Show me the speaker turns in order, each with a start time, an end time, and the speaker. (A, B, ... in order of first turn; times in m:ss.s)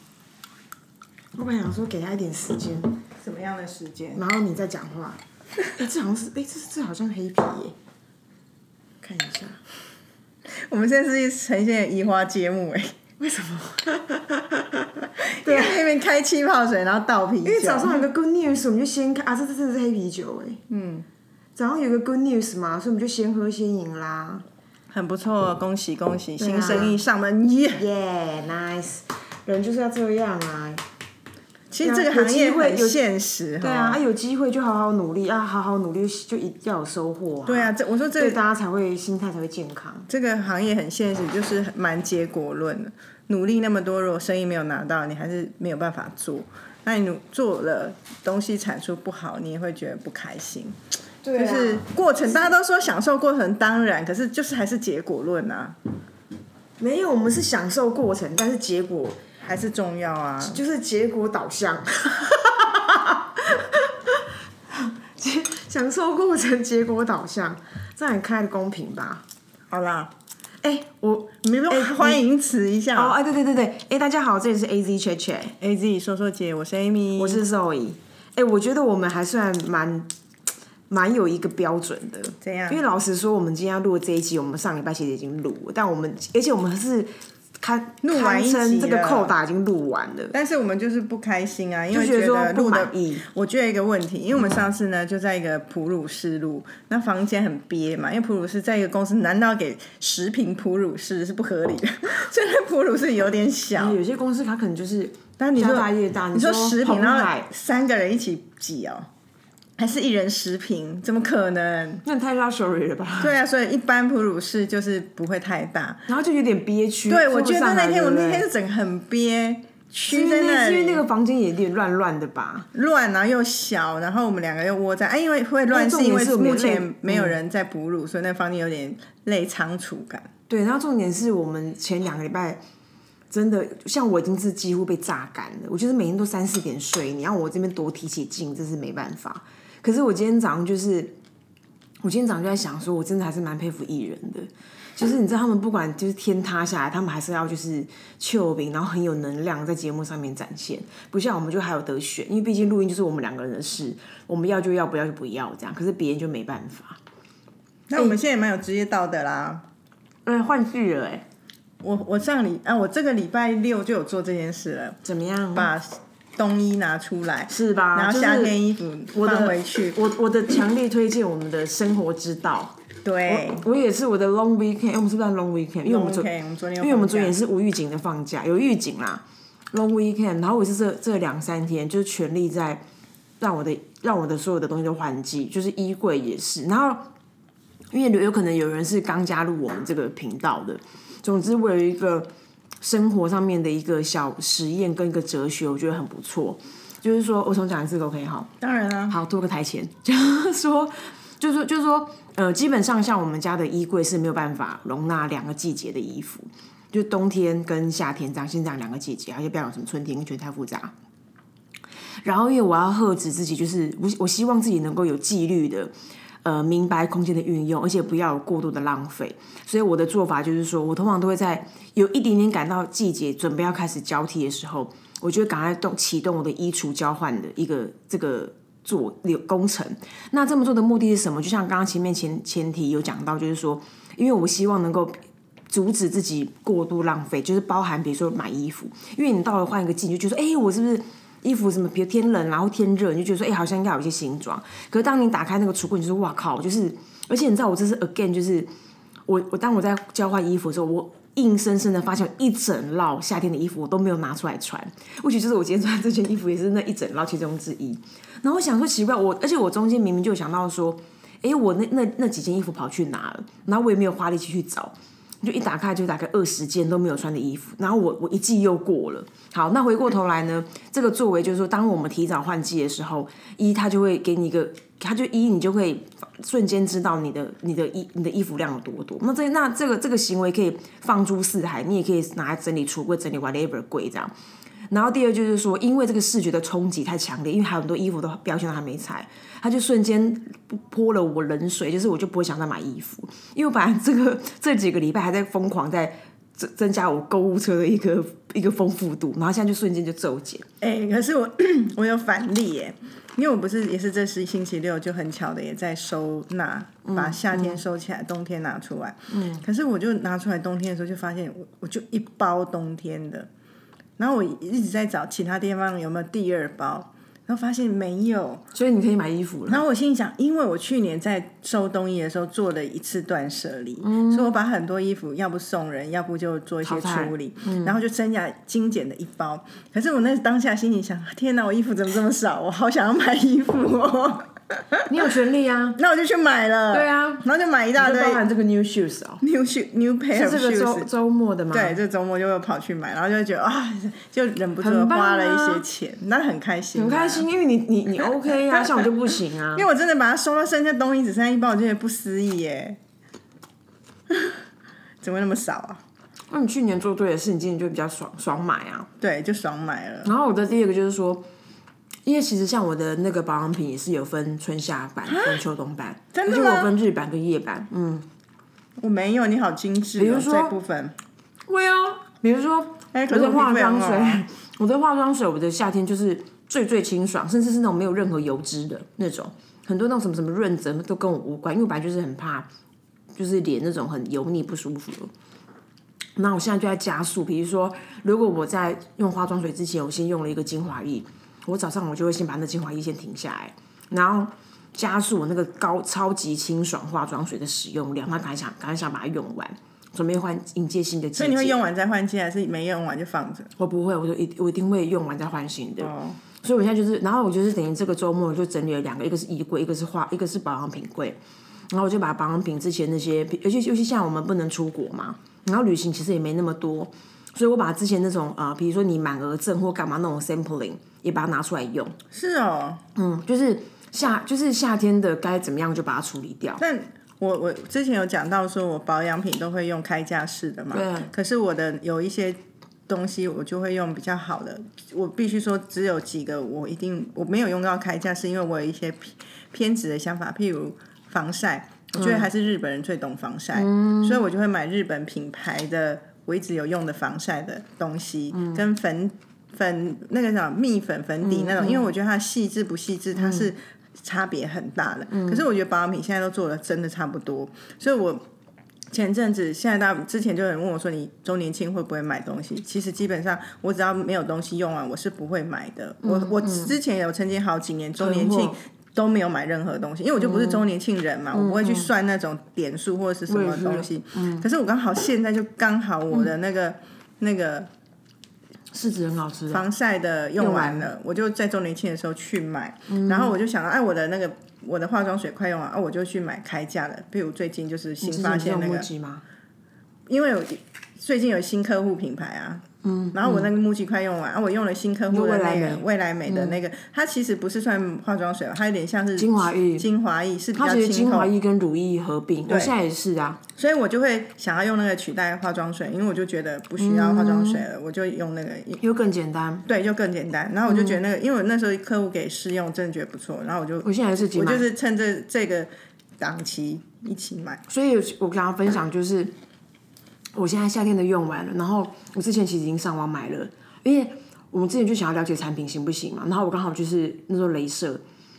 0:01.4-0:03.0 A
0:03.2-0:04.2 B
0:04.2-0:07.8 A
0:09.0-0:09.6 A
0:10.5-0:13.0 B
0:13.2-0:15.8 A
0:15.2-0:18.1 B
0:17.4-0:20.6 A
0:20.7-0:21.1 B
0:21.6-0:24.4 A
0:24.9-0:27.8 B
0:26.4-0:27.0 A
0:27.8-0:30.8 A
0:31.7-0:34.0 B
0:31.8-0:33.0 A
0:33.6-0:40.1 A
0:37.5-0:38.4 B
0:40.1-0:50.8 B
0:51.2-0:51.9 A
0:51.3-0:55.8 B
0:56.8-0:59.2 A
0:59.5-1:00.6 B
1:00.4-1:09.2 A
1:09.7-1:10.1 B
1:10.6-1:12.2 A
1:11.4-1:13.2 B
1:12.9-1:15.6 A
1:15.6-1:17.4 B
1:17.2-1:20.1 A
1:20.9-1:30.3 A
1:22.4-1:22.8 B
1:28.0-1:29.4 B
1:30.3-1:44.0 B
1:31.9-1:33.3 A
1:43.8-1:47.5 A
1:45.4-1:49.1 B
1:49.8-1:52.0 B
1:52.0-1:53.4 A
1:53.2-1:56.1 B
1:56.1-1:58.5 A
1:57.1-2:01.0 B
2:00.1-2:02.7 A
2:02.7-2:10.3 B
2:05.7-2:07.4 A
2:10.5-2:12.6 A
2:13.3-2:21.1 A
2:22.0-2:37.0 A
2:37.9-2:39.6 B
2:40.3-2:41.2 A
2:41.8-2:45.0 B
2:45.0-2:45.7 A
2:45.6-2:50.0 B
2:47.5-2:48.6 A
2:49.1-2:56.3 A
2:53.0-2:53.6 B
2:55.8-2:57.4 B
2:56.8-3:02.8 A
3:03.4-3:07.1 A
3:07.9-3:12.3 A
3:12.8-3:18.5 A
3:18.6-3:19.2 B
3:19.1-3:30.9 A
3:32.2-3:35.9 A
3:36.4-3:55.2 A
3:55.7-4:08.7 A
4:09.3-4:44.3 A
4:44.9-5:00.6 A
5:00.8-5:13.5 B
5:07.0-5:07.8 A
5:09.3-5:09.6 A
5:14.2-5:18.6 B
5:18.7-5:19.8 A
5:19.7-5:35.3 B
5:24.0-5:24.5 A
5:26.8-5:28.0 A
5:35.1-5:36.0 A
5:36.0-5:38.4 B
5:36.9-5:37.4 A
5:38.0-5:39.4 A
5:39.4-5:41.1 B
5:40.3-5:42.0 A
5:41.7-5:47.5 B
5:44.8-5:45.8 A
5:47.0-5:49.9 A
5:49.8-5:53.0 B
5:54.3-5:54.6 B
5:55.2-5:56.0 B
5:56.5-5:59.1 A
5:59.2-6:00.3 B
6:00.2-6:01.5 A
6:02.2-6:08.3 A
6:05.3-6:05.6 B
6:06.3-6:06.9 B
6:09.0-6:11.2 B
6:10.2-6:10.8 A
6:11.7-6:22.7 A
6:13.1-6:14.4 B
6:23.4-6:25.3 A
6:26.4-6:41.8 A
6:41.4-6:43.7 B
6:43.8-6:51.4 A
6:46.0-6:46.4 B
6:51.9-7:02.2 A
7:02.3-7:03.0 B
7:03.2-7:06.8 A
7:06.8-7:38.4 B
7:10.9-7:11.3 A
7:22.2-7:22.5 A
7:23.8-7:24.4 A
7:28.5-7:28.8 A
7:31.4-7:32.1 A
7:33.4-7:33.7 A
7:35.3-7:35.6 A
7:39.1-7:57.9 B
7:46.2-7:46.9 A
7:48.2-7:48.8 A
7:50.4-7:50.8 A
7:51.5-7:52.1 A
7:53.5-7:54.7 A
7:58.9-7:59.8 A
7:59.7-8:09.1 B
8:00.6-8:01.1 A
8:03.1-8:03.6 A
8:08.2-8:09.4 A
8:10.3-8:21.5 B
8:13.0-8:13.7 A
8:15.3-8:16.8 A
8:19.4-8:20.1 A
8:20.7-8:23.6 A
8:22.7-8:22.9 B
8:23.8-8:29.0 B
8:27.0-8:27.8 A
8:29.0-8:29.8 A
8:29.9-8:37.8 B
8:30.9-8:31.2 A
8:34.0-8:34.9 A
8:37.9-8:39.5 A
8:40.6-8:48.2 A